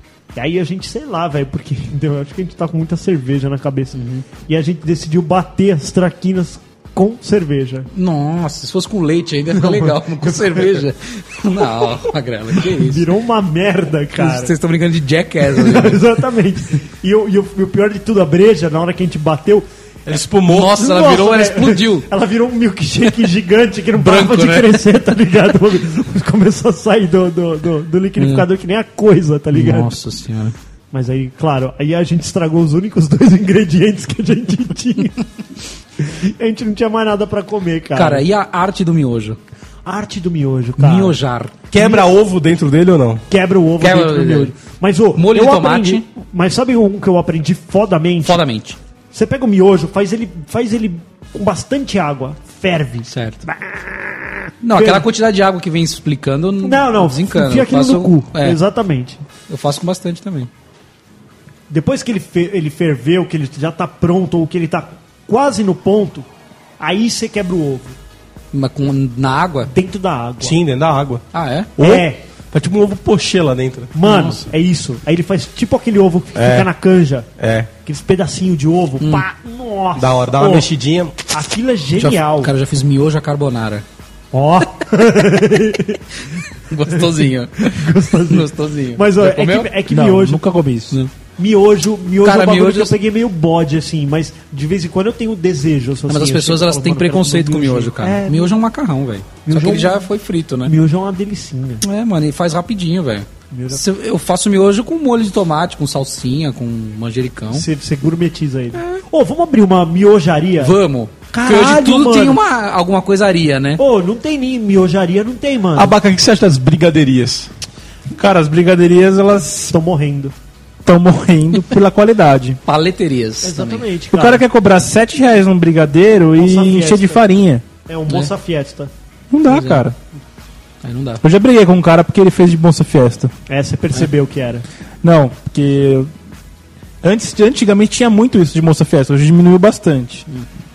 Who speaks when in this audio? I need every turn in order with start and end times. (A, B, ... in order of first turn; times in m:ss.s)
0:00.4-0:07.9 A
0:04.0-0:04.2 B
0:07.9-0:13.1 B
0:09.5-0:10.9 A
0:12.6-0:14.5 A
0:14.2-0:16.1 B
0:15.5-0:19.7 A
0:20.1-0:20.9 C
0:20.4-0:22.1 B
0:20.8-0:29.9 A
0:24.0-0:24.8 B
0:28.2-0:28.4 B
0:29.5-0:30.6 B
0:30.9-0:35.3 A
0:36.0-0:38.2 A
0:38.0-0:39.4 B
0:39.9-0:41.2 A
0:40.8-0:41.6 B
0:41.7-0:43.2 C
0:41.7-0:42.1 A
0:43.3-0:48.4 A
0:43.8-0:44.5 B
0:45.2-0:46.0 B
0:48.2-0:48.8 B
0:49.1-0:55.1 A
0:53.1-0:53.4 B
0:54.6-0:58.6 B
0:56.6-0:59.2 A
0:59.5-1:00.5 B
1:01.7-1:06.3 A
1:06.8-1:08.0 A
1:08.5-1:09.7 B
1:09.7-1:10.6 A
1:10.4-1:11.2 C
1:11.3-1:11.7 B
1:11.8-1:13.9 C
1:11.8-1:12.2 A
1:13.9-1:17.3 A
1:14.0-1:14.4 B
1:16.4-1:16.7 C
1:17.4-1:17.7 C
1:17.8-1:20.7 A
1:20.0-1:21.2 C
1:21.3-1:22.5 A
1:22.0-1:23.8 B
1:24.3-1:26.0 A
1:26.7-1:29.7 B
1:27.6-1:30.4 A
1:29.9-1:31.0 D
1:31.4-1:38.6 A
1:32.2-1:33.0 B
1:36.1-1:40.7 B
1:39.4-1:40.0 A
1:40.7-1:41.8 A
1:41.8-1:47.6 B
1:43.5-1:43.8 A
1:47.5-1:50.7 A
1:48.8-1:49.0 B
1:50.6-1:53.8 B
1:51.3-1:52.4 A
1:53.8-1:55.9 A
1:55.8-1:57.5 C
1:58.2-1:59.7 D
1:59.7-2:00.3 A
2:00.8-2:02.6 D
2:02.7-2:03.9 B
2:03.4-2:04.4 A
2:04.1-2:07.6 D
2:06.4-2:07.2 A
2:07.9-2:08.9 A
2:09.3-2:10.0 D
2:09.5-2:09.9 B
2:10.8-2:11.2 B
2:11.2-2:13.3 D
2:13.5-2:14.6 A
2:15.0-2:16.1 D
2:17.0-2:20.2 D